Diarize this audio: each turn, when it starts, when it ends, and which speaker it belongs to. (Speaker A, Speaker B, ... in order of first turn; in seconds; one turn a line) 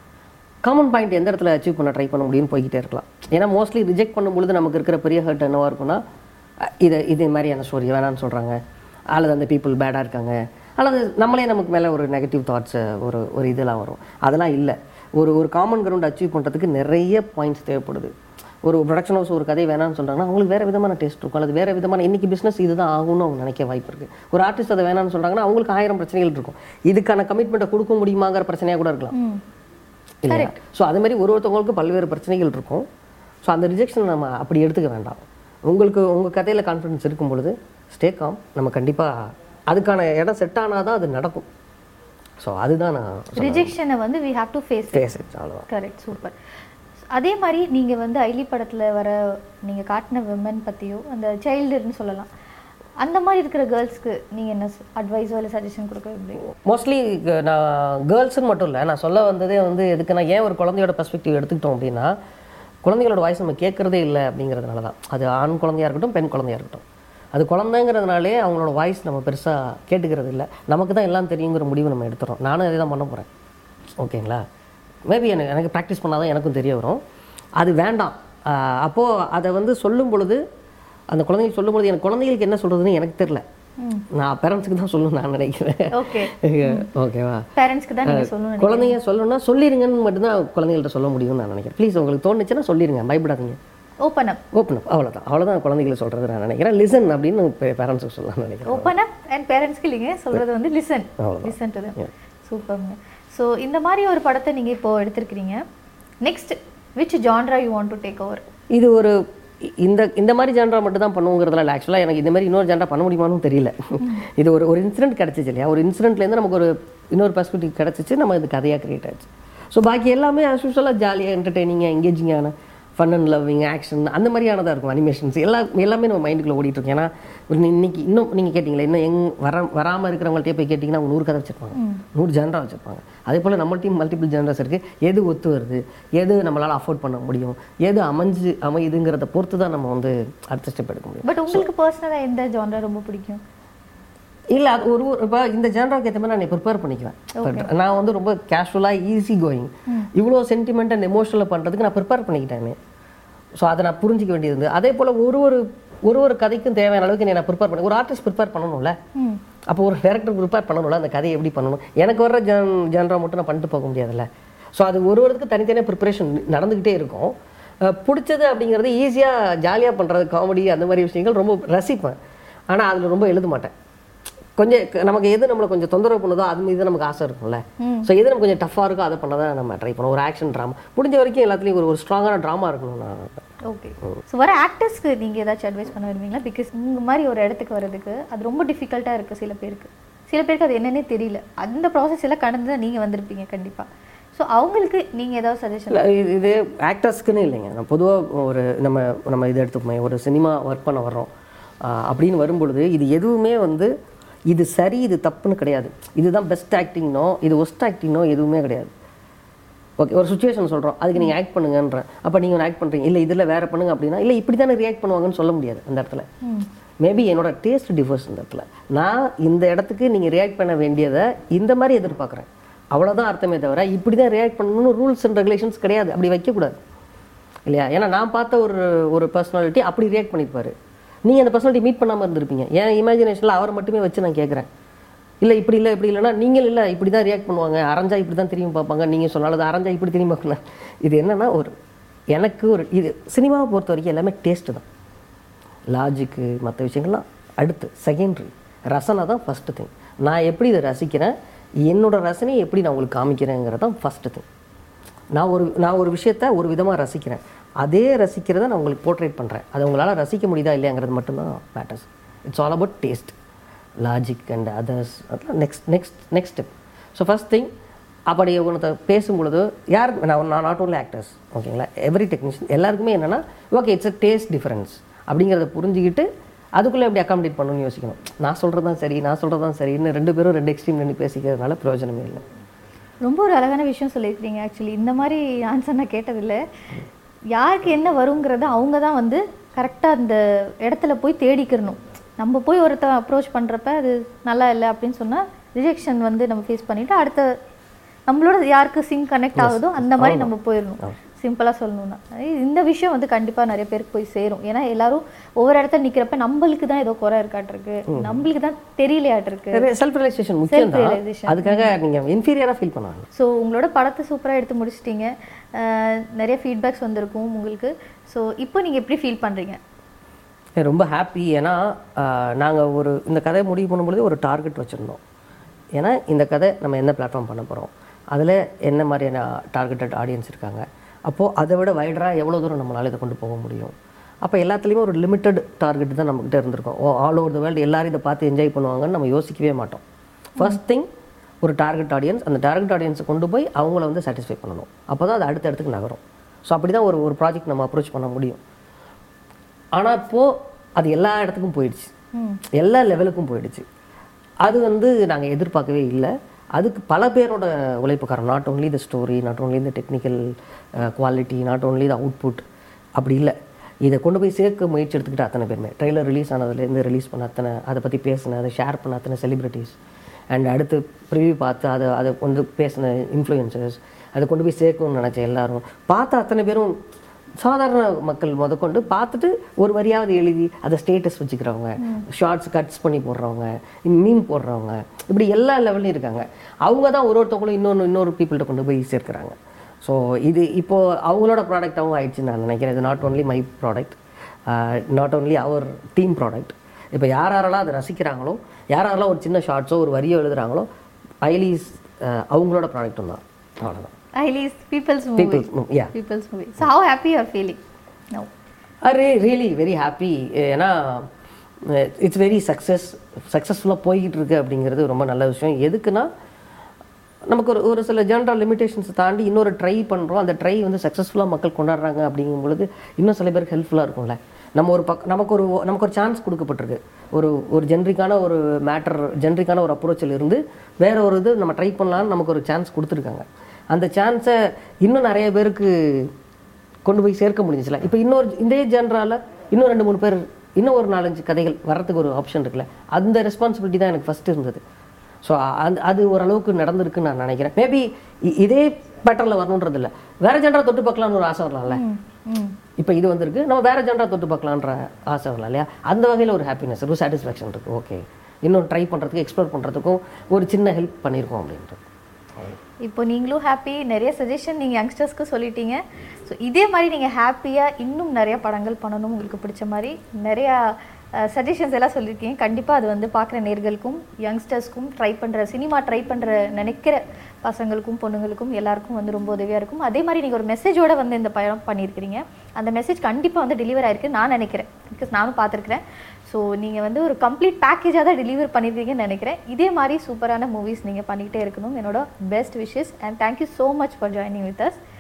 Speaker A: 0.7-6.0
Speaker A: 6.6-8.6
Speaker A: 9.1-18.1
Speaker A: 18.6-29.1
Speaker B: 29.1-29.4
Speaker A: 30.2-32.9
Speaker B: 30.3-30.6
Speaker A: 33.4-41.5
Speaker A: 42.4-43.7
Speaker B: 43.4-45.1
Speaker A: 44.9-45.7
Speaker B: 45.7-46.4
Speaker B: 47.1-52.3
Speaker B: 53.0-56.4
Speaker A: 56.5-62.1
Speaker A: 62.8-73.3
Speaker A: 74.0-74.4
Speaker A: 75.1-77.0
Speaker A: 77.6-80.4
Speaker A: 81.1-83.4
Speaker B: 83.8-84.1
Speaker A: 84.1-87.5
Speaker B: 85.9-86.9
Speaker B: 87.6-89.0
Speaker A: 88.0-93.6
Speaker B: 94.0-94.4
Speaker A: 94.5-98.9
Speaker B: 98.7-105.6
Speaker A: 101.2-102.1
Speaker B: 106.2-108.4
Speaker A: 108.7-141.7
Speaker B: 131.7-132.0
Speaker B: 141.2-143.4
Speaker A: 144.5-152.8
Speaker B: 147.3-147.7
Speaker A: 153.6-159.0
Speaker B: 159.2-159.4
Speaker A: 159.7-172.2
Speaker A: 172.7-173.7
Speaker A: 174.6-183.5
Speaker B: 177.8-178.1
Speaker B: 183.7-196.1
Speaker A: 195.9-201.3
Speaker A: 201.8-203.9
Speaker A: 204.5-208.9
Speaker A: 210.0-216.3
Speaker A: 217.0-226.7
Speaker A: 227.7-230.7
Speaker A: 231.2-234.7
Speaker A: 235.4-241.7
Speaker A: 242.3-244.8
Speaker A: 245.9-251.3
Speaker A: 251.8-254.5
Speaker A: 255.3-263.4
Speaker A: 264.0-267.7
Speaker A: 268.3-282.4
Speaker B: 283.2-286.6
Speaker B: 287.5-297.5
Speaker B: 298.3-309.9
Speaker A: 299.6-300.5
Speaker A: 308.1-308.4
Speaker A: 309.7-313.3
Speaker B: 310.7-311.9
Speaker B: 313.4-319.8
Speaker A: 320.8-325.2
Speaker A: 325.9-340.0
Speaker A: 340.6-341.1
Speaker A: 341.6-348.6
Speaker A: 349.9-352.1
Speaker B: 352.4-352.6
Speaker A: 352.7-353.9
Speaker A: 354.6-360.4
Speaker A: 361.0-362.6
Speaker A: 363.2-370.0
Speaker A: 370.5-376.9
Speaker A: 377.6-400.9
Speaker B: 382.0-382.3
Speaker A: 401.4-404.1
Speaker B: 404.4-407.8
Speaker A: 405.4-406.1
Speaker A: 409.0-411.3
Speaker A: 411.8-416.3
Speaker A: 417.5-436.3
Speaker A: 437.1-444.8
Speaker A: 445.4-452.0
Speaker B: 451.9-452.8
Speaker A: 453.0-462.0
Speaker B: 463.0-495.0